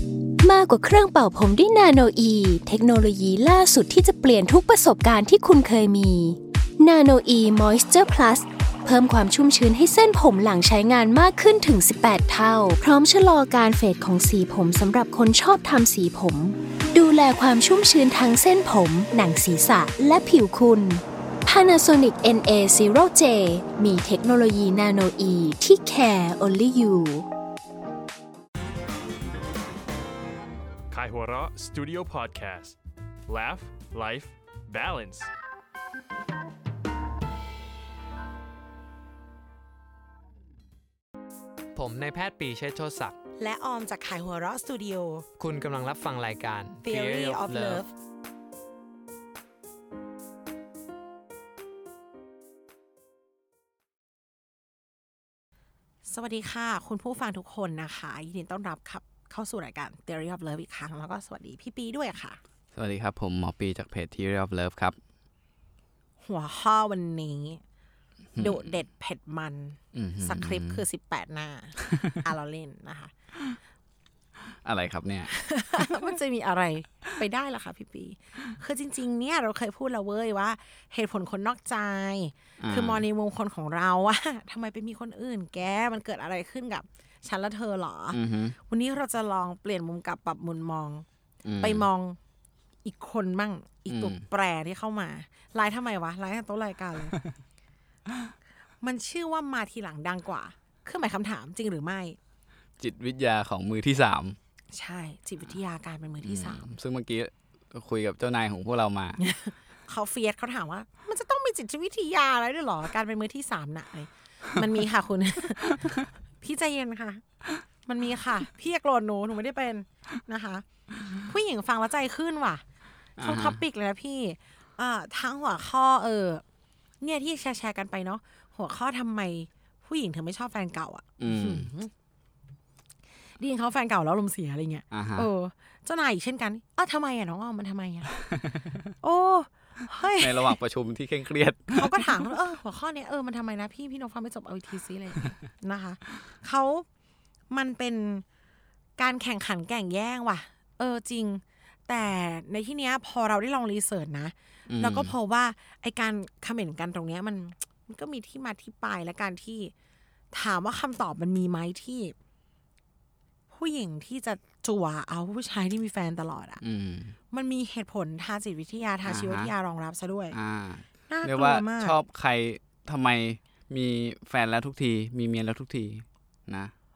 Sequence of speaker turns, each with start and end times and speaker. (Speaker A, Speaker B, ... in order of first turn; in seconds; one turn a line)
Speaker A: 0.4-27.3
Speaker B: 30.9-35.3
Speaker C: 41.8-43.2
Speaker D: 43.4-45.3
Speaker C: 45.4-47.9
Speaker D: 46.8-47.9
Speaker D: 56.1-62.4
Speaker E: 62.7-65.0
Speaker D: 66.2-67.6
Speaker E: 68.3-68.6
Speaker D: 68.4-73.1
Speaker E: 69.9-70.8
Speaker E: 74.5-76.0
Speaker D: 75.3-91.1
Speaker E: 82.6-83.0
Speaker E: 88.1-88.6
Speaker E: 91.4-91.9
Speaker D: 91.6-92.2
Speaker D: 92.8-97.2
Speaker E: 93.9-94.2
Speaker D: 98.8-102.2
Speaker E: 102.8-104.4
Speaker D: 104.7-106.7
Speaker E: 106.2-109.2
Speaker D: 109.2-115.8
Speaker D: 116.4-117.2
Speaker D: 117.9-120.7
Speaker D: 121.2-122.6
Speaker E: 123.2-123.6
Speaker D: 123.2-126.4
Speaker D: 127.0-131.9
Speaker E: 131.2-131.7
Speaker D: 133.4-138.2
Speaker E: 134.9-135.3
Speaker E: 138.4-138.8
Speaker D: 139.0-140.6
Speaker E: 140.2-142.3
Speaker D: 141.7-146.9
Speaker D: 147.5-148.2
Speaker D: 149.0-159.7
Speaker E: 154.7-155.1
Speaker D: 160.3-162.2
Speaker D: 163.5-166.6
Speaker E: 166.6-167.2
Speaker D: 167.3-170.4
Speaker E: 169.1-169.5
Speaker E: 170.3-176.7
Speaker D: 171.1-172.0